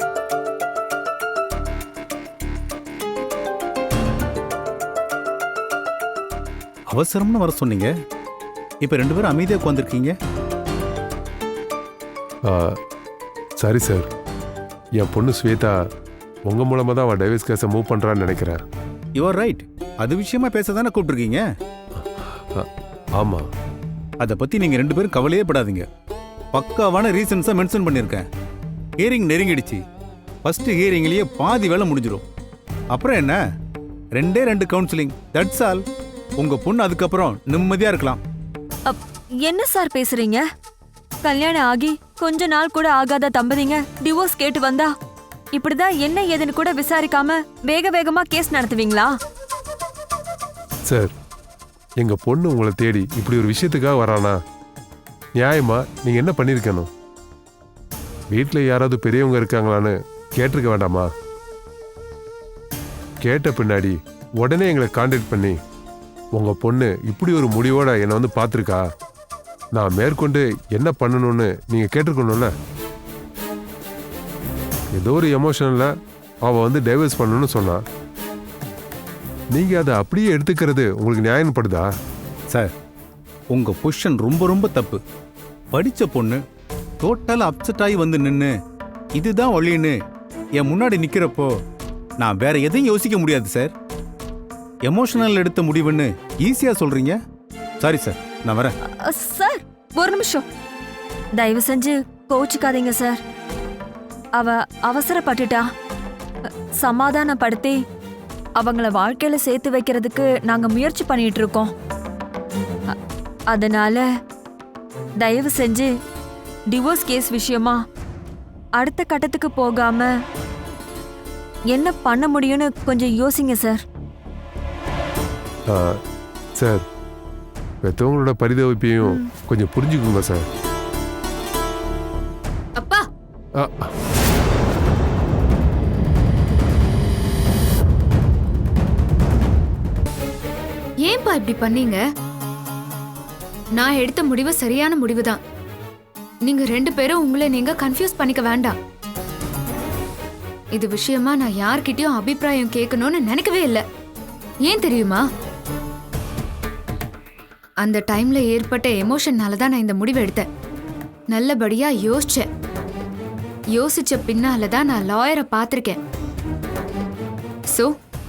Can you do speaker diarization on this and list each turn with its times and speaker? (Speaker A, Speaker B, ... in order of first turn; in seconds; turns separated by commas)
Speaker A: 6.9-7.9, Speaker A: 8.8-10.1, Speaker B: 12.5-12.8, Speaker B: 13.6-14.1, Speaker B: 15.0-15.8, Speaker B: 16.5-18.6, Speaker A: 19.2-21.4, Speaker B: 22.0-22.7, Speaker B: 23.2-23.5, Speaker A: 24.2-25.9, Speaker A: 26.5-28.2, Speaker A: 29.0-29.8, Speaker A: 30.4-32.2, Speaker A: 32.9-33.4, Speaker A: 34.1-35.8, Speaker A: 36.4-38.2, Speaker C: 38.9-40.5, Speaker C: 41.2-44.9, Speaker C: 45.5-49.1, Speaker B: 52.0-54.3, Speaker B: 55.4-56.9, Speaker B: 58.3-61.1, Speaker B: 63.2-65.5, Speaker B: 66.3-68.8, Speaker B: 69.7-72.5, Speaker B: 74.9-75.9, Speaker B: 76.5-77.8, Speaker B: 79.5-81.9, Speaker A: 83.5-85.0, Speaker A: 85.7-86.4, Speaker A: 87.0-88.5, Speaker A: 89.2-90.0, Speaker A: 90.6-91.5, Speaker A: 92.2-93.7, Speaker A: 94.8-97.2, Speaker A: 97.8-98.7, Speaker C: 99.0-100.4, Speaker C: 101.4-103.2, Speaker C: 104.4-105.7, Speaker C: 106.5-107.8, Speaker C: 108.6-111.7, Speaker C: 113.5-114.0, Speaker C: 115.2-115.9, Speaker C: 116.7-117.8, Speaker C: 118.8-120.1, Speaker C: 121.7-123.8, Speaker B: 125.7-126.0, Speaker B: 126.6-126.8, Speaker B: 127.8-130.4, Speaker C: 129.0-129.3, Speaker D: 132.8-133.1, Speaker B: 133.6-133.9, Speaker D: 141.0-142.0, Speaker D: 143.8-145.4, Speaker D: 146.4-148.8, Speaker D: 150.8-153.8, Speaker D: 154.7-155.2, Speaker D: 157.8-160.5, Speaker D: 161.3-162.5, Speaker D: 163.7-166.0